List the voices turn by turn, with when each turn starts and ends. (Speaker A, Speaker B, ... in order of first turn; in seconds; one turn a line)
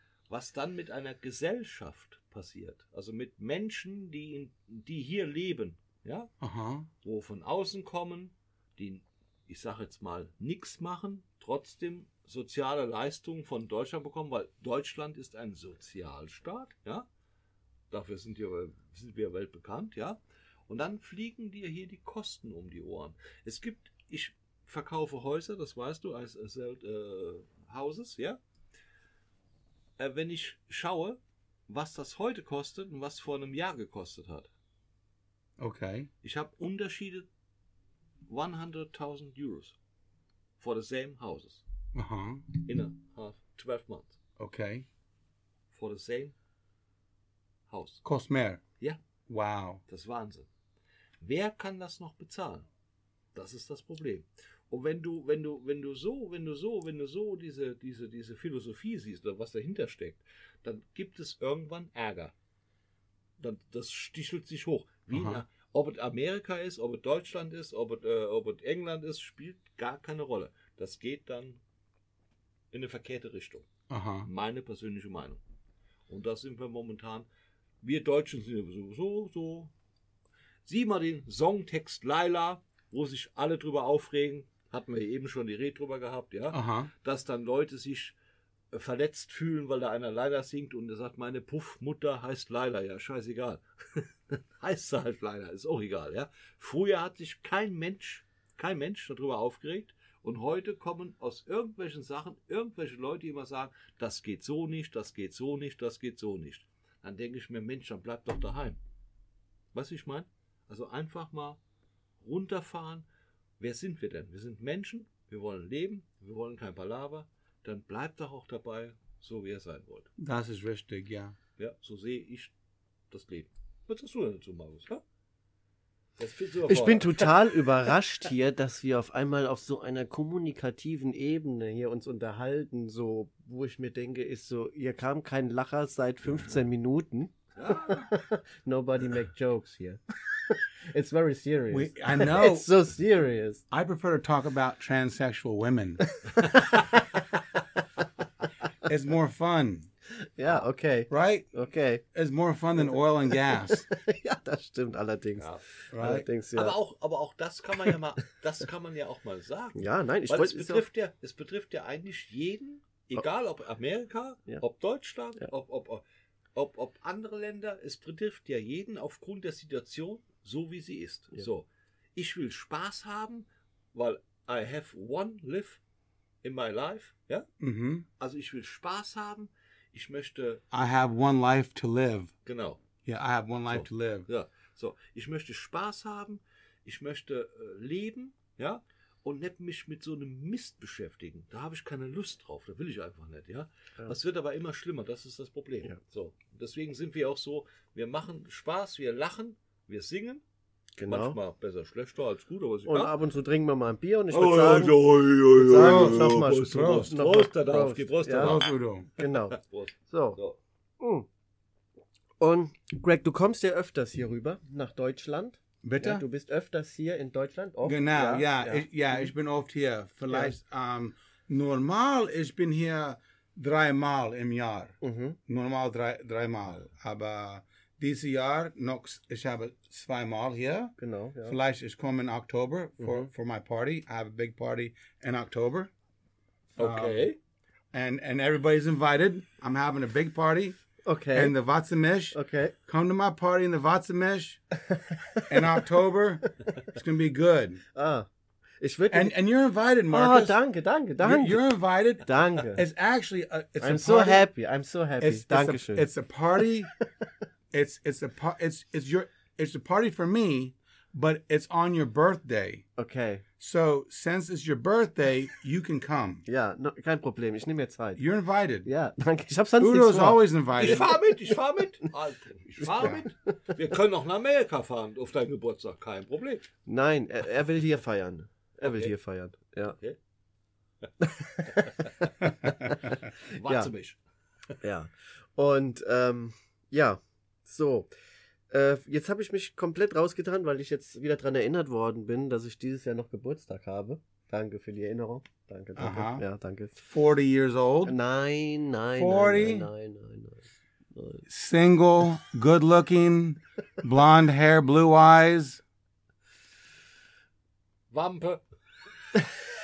Speaker A: 0.3-6.3
Speaker B: 6.4-6.9
Speaker A: 7.0-17.1
Speaker A: 17.9-28.4
Speaker A: 30.0-34.5
Speaker B: 35.6-36.1
Speaker A: 36.2-37.3
Speaker A: 38.3-39.8
Speaker A: 40.6-41.6
Speaker B: 41.9-42.5
Speaker A: 42.6-44.2
Speaker B: 44.4-44.9
Speaker A: 45.7-46.3
Speaker A: 47.7-48.0
Speaker B: 48.0-48.6
Speaker B: 49.3-49.8
Speaker A: 49.9-50.5
Speaker A: 51.2-52.7
Speaker A: 53.3-62.3
Speaker A: 63.4-71.6
Speaker B: 65.1-65.4
Speaker A: 72.7-73.7
Speaker B: 73.9-74.3
Speaker A: 74.2-75.4
Speaker A: 76.1-77.3
Speaker A: 77.8-79.7
Speaker A: 80.7-88.1
Speaker B: 86.5-86.9
Speaker A: 88.7-108.8
Speaker A: 109.7-111.6
Speaker A: 112.2-113.0
Speaker A: 113.6-120.1
Speaker B: 120.2-121.4
Speaker A: 121.6-122.5
Speaker A: 123.1-125.0
Speaker A: 126.2-127.9
Speaker C: 126.7-143.6
Speaker A: 137.6-138.1
Speaker B: 141.7-142.7
Speaker B: 143.7-146.0
Speaker C: 146.2-147.2
Speaker B: 148.8-149.9
Speaker C: 150.4-152.0
Speaker B: 151.1-153.9
Speaker C: 152.8-156.8
Speaker A: 155.4-155.6
Speaker B: 155.9-156.2
Speaker A: 156.5-166.0
Speaker C: 159.8-160.8
Speaker A: 166.5-175.8
Speaker A: 176.4-177.5
Speaker B: 177.6-178.1
Speaker A: 178.2-180.6
Speaker B: 180.7-182.3
Speaker A: 182.4-182.8
Speaker B: 183.0-184.3
Speaker A: 183.7-200.4
Speaker C: 201.0-201.4
Speaker A: 201.1-203.2
Speaker C: 202.9-208.6
Speaker A: 204.3-210.6
Speaker B: 205.8-207.1
Speaker B: 208.4-209.1
Speaker C: 209.2-209.6
Speaker C: 210.1-210.4
Speaker C: 211.0-211.3
Speaker C: 212.4-219.3
Speaker B: 215.8-216.2
Speaker B: 217.8-230.9
Speaker C: 220.3-220.5
Speaker C: 225.0-225.4
Speaker C: 231.0-231.6
Speaker B: 231.5-235.9
Speaker C: 233.0-233.3
Speaker B: 236.8-237.3
Speaker A: 236.8-237.4
Speaker B: 237.9-240.8
Speaker C: 241.0-241.5
Speaker B: 241.3-244.6
Speaker C: 242.3-242.8
Speaker C: 244.8-245.8
Speaker B: 245.5-247.8
Speaker C: 247.9-248.3
Speaker C: 248.8-249.4
Speaker B: 249.1-250.6
Speaker C: 250.1-251.6
Speaker B: 251.2-254.5
Speaker C: 252.2-252.8
Speaker C: 253.8-256.1
Speaker B: 255.2-256.9
Speaker B: 257.7-262.9
Speaker C: 263.0-263.4
Speaker B: 263.6-266.4
Speaker C: 266.5-268.2
Speaker B: 268.2-268.9
Speaker C: 268.8-270.4
Speaker B: 269.8-271.2
Speaker A: 270.7-276.7
Speaker C: 272.9-273.3
Speaker C: 276.9-280.0
Speaker A: 278.8-279.1
Speaker C: 281.2-283.9
Speaker A: 283.4-284.2
Speaker C: 284.8-288.1
Speaker C: 288.7-297.0
Speaker B: 296.0-296.4
Speaker B: 297.0-298.1
Speaker C: 298.0-301.4
Speaker B: 299.2-299.9
Speaker B: 301.5-305.8
Speaker A: 308.1-308.6